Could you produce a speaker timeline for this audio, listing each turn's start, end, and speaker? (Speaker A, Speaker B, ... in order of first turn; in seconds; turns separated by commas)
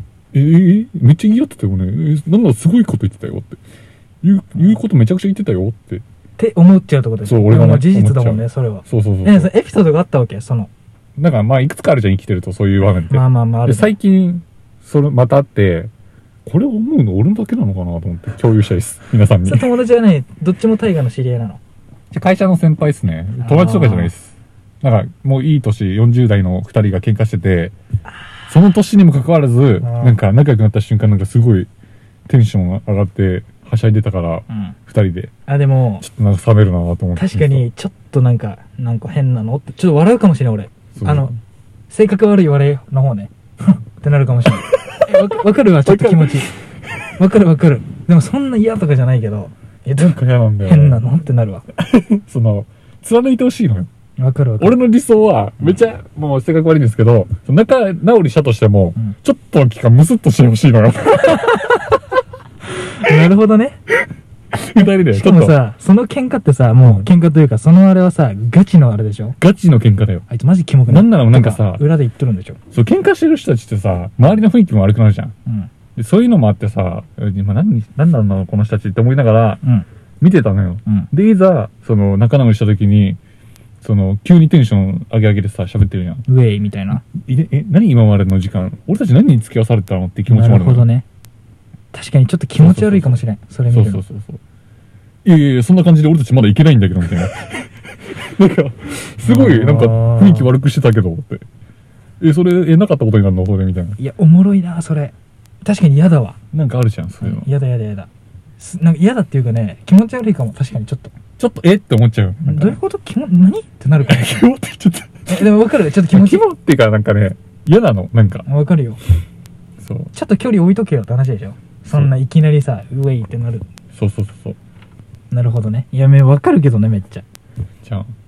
Speaker A: 0.3-3.6, Speaker A: 4.2-6.0, Speaker B: 6.4-10.7, Speaker A: 7.2-9.5, Speaker A: 11.2-15.9, Speaker B: 13.1-13.9, Speaker A: 16.4-19.7, Speaker B: 19.4-21.6, Speaker A: 22.1-27.7, Speaker B: 23.4-24.1, Speaker A: 28.5-31.7, Speaker B: 29.8-30.2, Speaker A: 32.3-35.3, Speaker B: 34.5-34.8, Speaker B: 35.5-36.0, Speaker A: 36.0-37.7, Speaker B: 37.2-41.3, Speaker A: 41.0-41.4, Speaker B: 41.9-46.5, Speaker A: 45.8-46.5, Speaker B: 47.2-51.7, Speaker A: 50.0-51.0, Speaker A: 51.8-53.9, Speaker B: 54.2-54.8, Speaker A: 54.6-61.6, Speaker B: 61.3-62.0, Speaker B: 62.8-63.8, Speaker A: 64.5-65.6, Speaker B: 64.8-69.4, Speaker A: 69.4-70.2, Speaker B: 70.3-72.6, Speaker A: 70.9-71.8, Speaker A: 72.7-75.3, Speaker B: 75.5-75.7, Speaker A: 76.0-79.6, Speaker A: 80.2-83.2, Speaker A: 83.8-86.2, Speaker B: 86.3-87.0, Speaker A: 87.0-90.9, Speaker B: 90.3-91.0, Speaker B: 91.9-94.0, Speaker A: 92.6-94.4, Speaker A: 95.2-101.4, Speaker B: 99.2-100.5, Speaker A: 102.2-104.0, Speaker B: 104.0-106.4, Speaker A: 106.5-107.5, Speaker B: 107.2-108.1, Speaker B: 108.6-111.1, Speaker A: 111.4-112.8, Speaker B: 112.4-114.4, Speaker A: 114.0-115.5, Speaker B: 115.3-116.4, Speaker A: 116.1-118.5, Speaker B: 118.5-119.0, Speaker A: 119.8-120.1, Speaker B: 120.1-123.7, Speaker A: 123.9-124.6, Speaker B: 125.3-127.2, Speaker A: 127.8-128.1